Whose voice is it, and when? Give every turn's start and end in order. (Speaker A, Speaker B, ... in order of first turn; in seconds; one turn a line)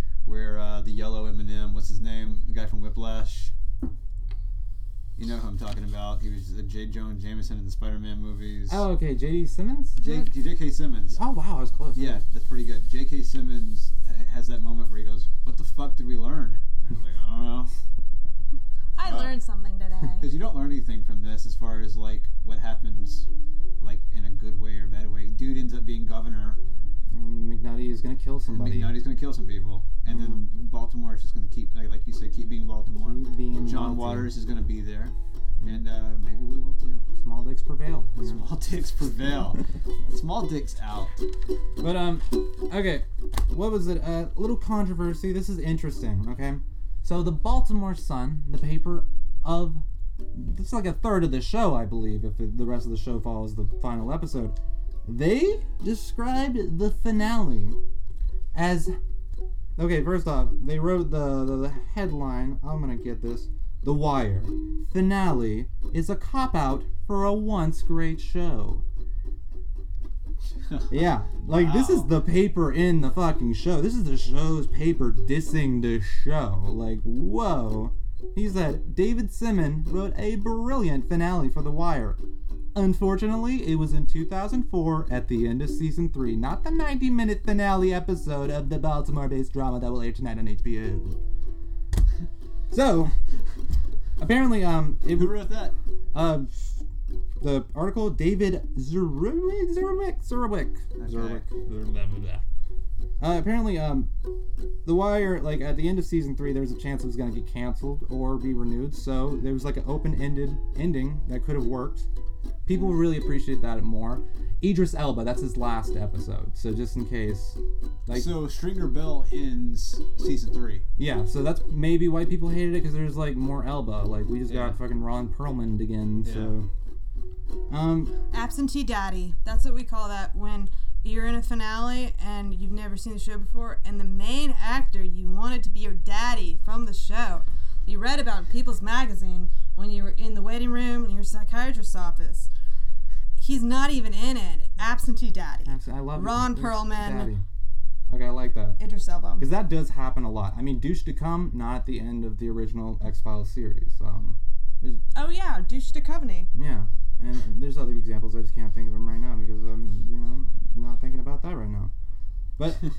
Speaker A: 0.2-3.5
Speaker A: 5.2-8.8
Speaker B: 8.7-10.3
Speaker A: 10.0-11.2
Speaker B: 11.1-12.2
Speaker A: 11.9-17.7
Speaker C: 18.9-20.3
Speaker A: 19.0-19.3
Speaker A: 20.2-23.3
Speaker A: 23.8-26.6
Speaker B: 27.1-28.9
Speaker A: 28.5-37.0
Speaker B: 30.1-30.4
Speaker B: 33.0-34.3
Speaker B: 37.1-38.4
Speaker A: 38.2-41.1
Speaker B: 41.8-57.8
Speaker B: 58.5-59.0
Speaker B: 59.8-68.8
Speaker A: 70.7-72.1
Speaker B: 70.9-82.2
Speaker B: 82.7-91.2
Speaker B: 92.7-93.1
Speaker B: 94.2-95.4
Speaker A: 95.1-95.8
Speaker B: 96.1-96.8
Speaker B: 97.4-102.4
Speaker A: 101.0-101.5
Speaker B: 103.2-104.1
Speaker B: 104.8-112.1
Speaker B: 112.6-118.4
Speaker A: 118.1-120.8
Speaker B: 121.0-126.7
Speaker A: 124.5-124.8
Speaker A: 126.2-126.5
Speaker B: 127.7-128.1
Speaker C: 128.3-142.5
Speaker C: 143.4-147.3
Speaker B: 145.7-147.4
Speaker B: 148.1-148.8
Speaker C: 148.8-149.5
Speaker B: 149.4-155.0
Speaker C: 155.1-156.5
Speaker B: 156.5-161.9
Speaker B: 162.6-162.9